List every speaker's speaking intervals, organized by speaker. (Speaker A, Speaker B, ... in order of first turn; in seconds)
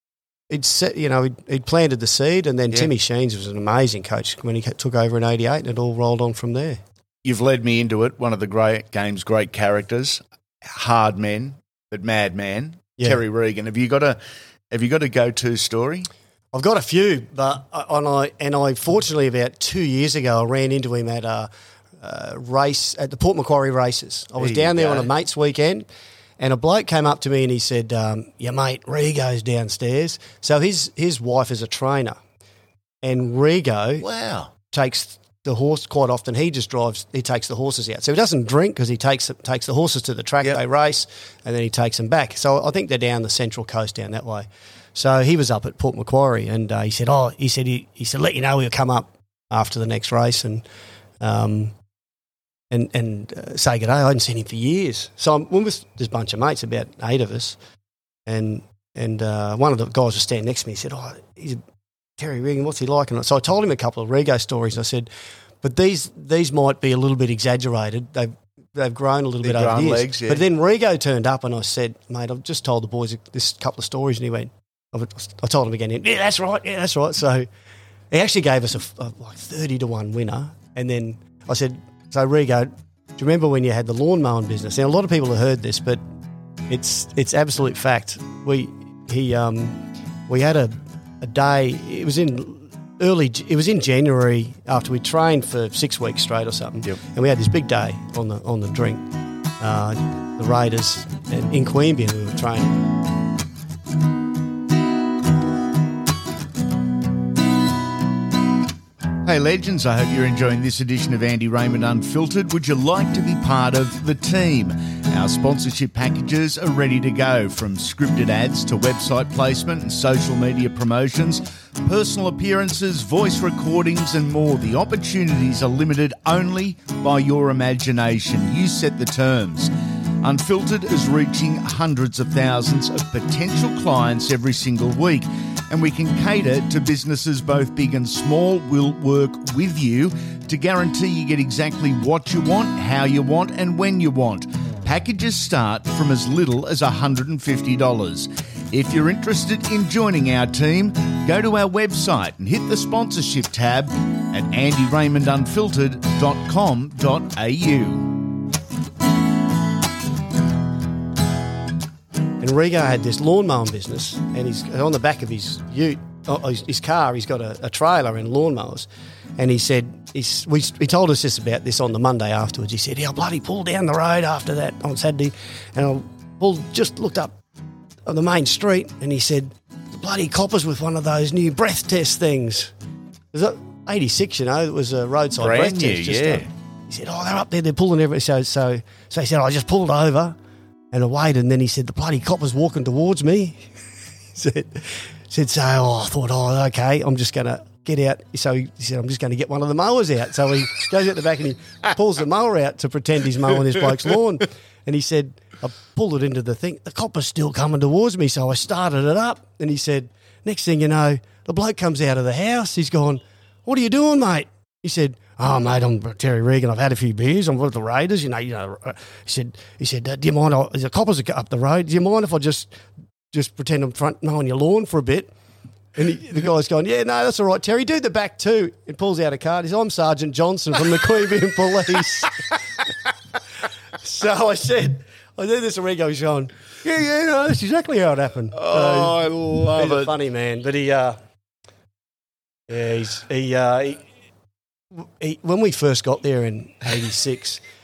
Speaker A: 0.5-6.8, 16.5-25.8, 26.4-32.2, 33.0-34.0, 34.7-50.6, 51.2-51.7, 52.7-57.6, 58.2-61.6, 62.2-65.1, 65.6-77.5, 78.1-86.0, 86.7-99.0, 99.6-102.9, 162.4-177.4, 178.1-182.7, 183.3-190.4, 190.9-193.7, 194.3-222.7, 223.3-225.3, 225.9-232.5, 234.0-241.2, 242.7-244.1, 244.9-247.6
Speaker B: 7.2-14.2, 14.7-16.1, 24.4-25.1, 34.0-34.5, 69.4-70.4, 109.2-158.2, 185.4-186.5, 238.5-240.1